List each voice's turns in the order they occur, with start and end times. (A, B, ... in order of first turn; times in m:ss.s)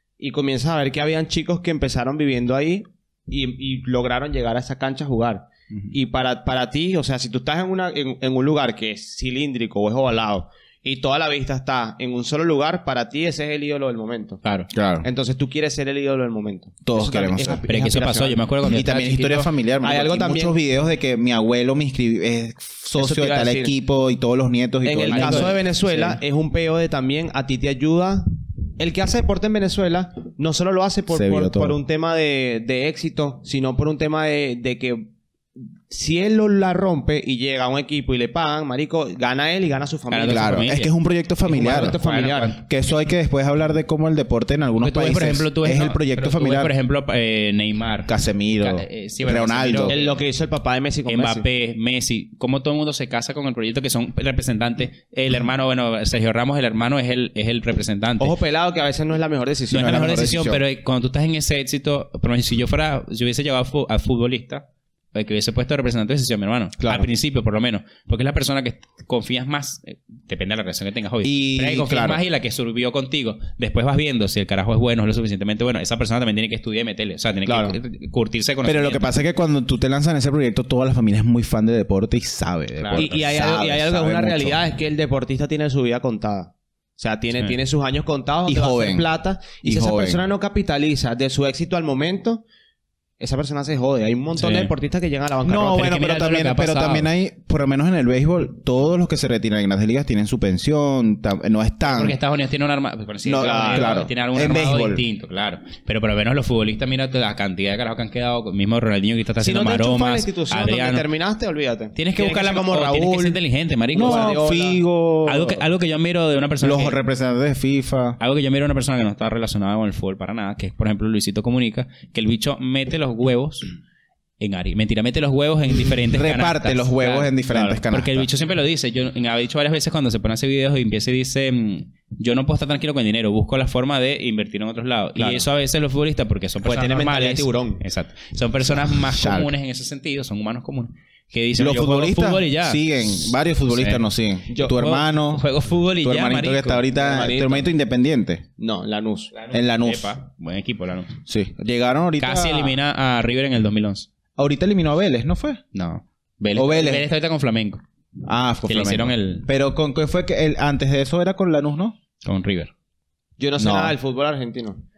0:00.2-0:14.4 A
0:14.7-0:15.1 B
0:15.0-0:18.4 A
0:16.8-0:17.6 B
0:17.7-0:19.5 C
0:18.6-0:25.6 B
0:19.8-0:20.6 A
0:23.0-0:23.7 A
0:24.8-0:40.6 A
0:25.0-0:26.2 C
0:31.1-0:31.8 B
0:40.1-0:40.9 C
0:40.2-0:42.0 B
0:41.5-0:42.6 A
0:41.5-0:42.6 C
0:42.6-0:46.7 B
0:44.8-0:50.0 C
0:48.1-0:50.0 B
0:49.9-0:51.4 A
0:51.1-0:58.3 C
0:58.2-1:00.1 A
0:59.7-1:19.1 C
0:59.7-1:00.6 B
1:11.2-1:12.2 B
1:17.5-1:17.8 A
1:18.6-1:24.6 B
1:22.8-1:23.1 C
1:22.9-1:32.4 A
1:28.5-1:29.1 B
1:29.6-1:30.2 B
1:33.2-1:36.0 A
1:34.4-1:34.7 C
1:35.4-1:42.2 B
1:35.6-1:37.1 C
1:41.8-1:51.1 C
1:43.2-1:45.0 B
1:43.3-1:44.1 A
1:49.4-1:53.4 A
1:52.0-1:54.4 C
1:53.9-1:54.8 A
1:54.0-1:55.6 B
1:55.3-1:57.0 C
1:56.6-1:58.2 B
1:58.2-2:03.7 C
2:04.4-2:07.4 C
2:06.1-2:08.3 B
2:07.5-2:07.8 A
2:07.9-2:22.8 C
2:15.2-2:15.4 A
2:16.6-2:17.8 A
2:18.8-2:19.5 B
2:21.6-2:28.4 B
2:23.7-2:24.0 C
2:24.7-2:26.9 C
2:27.0-2:27.7 A
2:28.6-2:29.3 A
2:29.3-2:31.2 C
2:29.5-2:30.1 B
2:31.3-2:32.8 B
2:32.2-2:34.1 C
2:34.4-2:35.6 B
2:35.7-2:37.8 C
2:36.6-2:37.1 B
2:38.2-2:42.0 B
2:38.7-2:39.5 C
2:42.2-2:42.7 C
2:43.4-2:44.8 A
2:43.6-2:44.0 B